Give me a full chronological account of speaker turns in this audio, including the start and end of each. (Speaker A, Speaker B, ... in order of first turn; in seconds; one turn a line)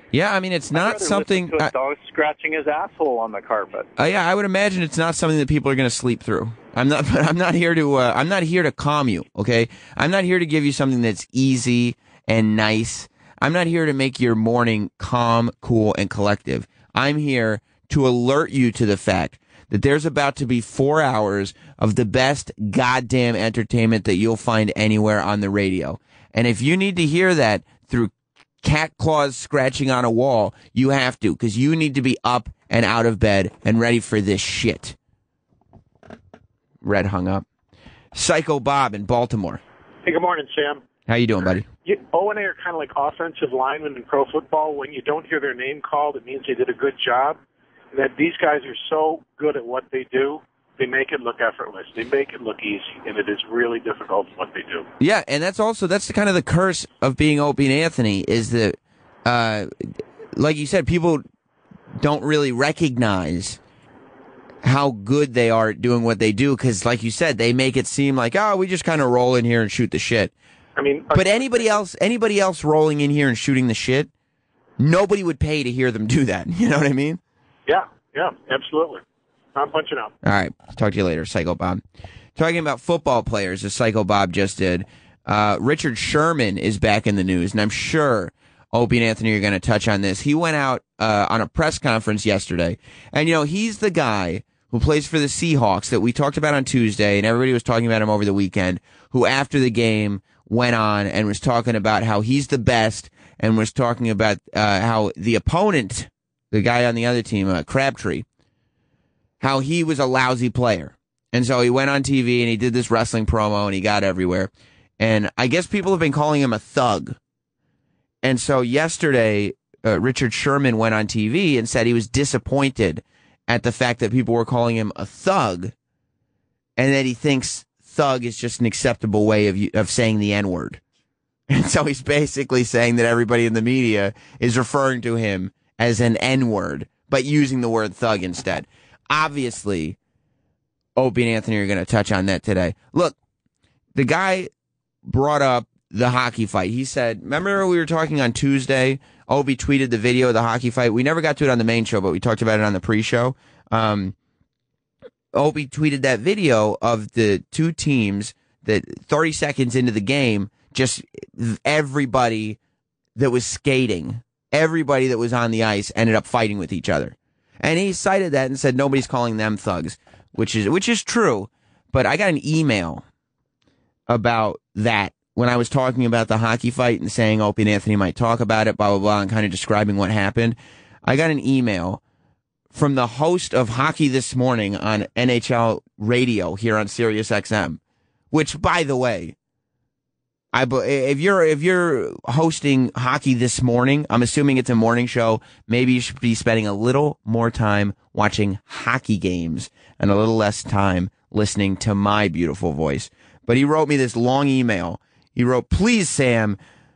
Speaker A: 0.1-1.7
Speaker B: 0.7-3.9
Speaker A: 4.0-35.0
Speaker A: 36.8-37.4
Speaker A: 38.1-39.6
Speaker C: 40.0-40.8
Speaker A: 41.1-41.7
Speaker C: 41.9-47.4
Speaker C: 47.9-54.9
Speaker A: 55.0-59.7
Speaker A: 60.4-61.2
Speaker A: 62.0-63.6
Speaker A: 64.6-70.3
Speaker C: 70.8-71.8
Speaker A: 71.1-74.1
Speaker A: 74.8-77.2
Speaker C: 77.7-79.0
Speaker C: 79.5-80.1
Speaker A: 80.2-81.8
Speaker A: 82.3-108.2
Speaker A: 109.4-117.2
Speaker A: 118.2-125.7
Speaker A: 126.8-130.8
Speaker A: 131.5-140.0
Speaker A: 140.9-143.2
Speaker A: 143.9-144.5
Speaker A: 145.0-154.1
Speaker A: 155.3-162.6
Speaker A: 163.2-173.0
Speaker A: 174.1-182.0
Speaker A: 182.7-187.8
Speaker A: 188.3-189.3
Speaker A: 190.5-206.6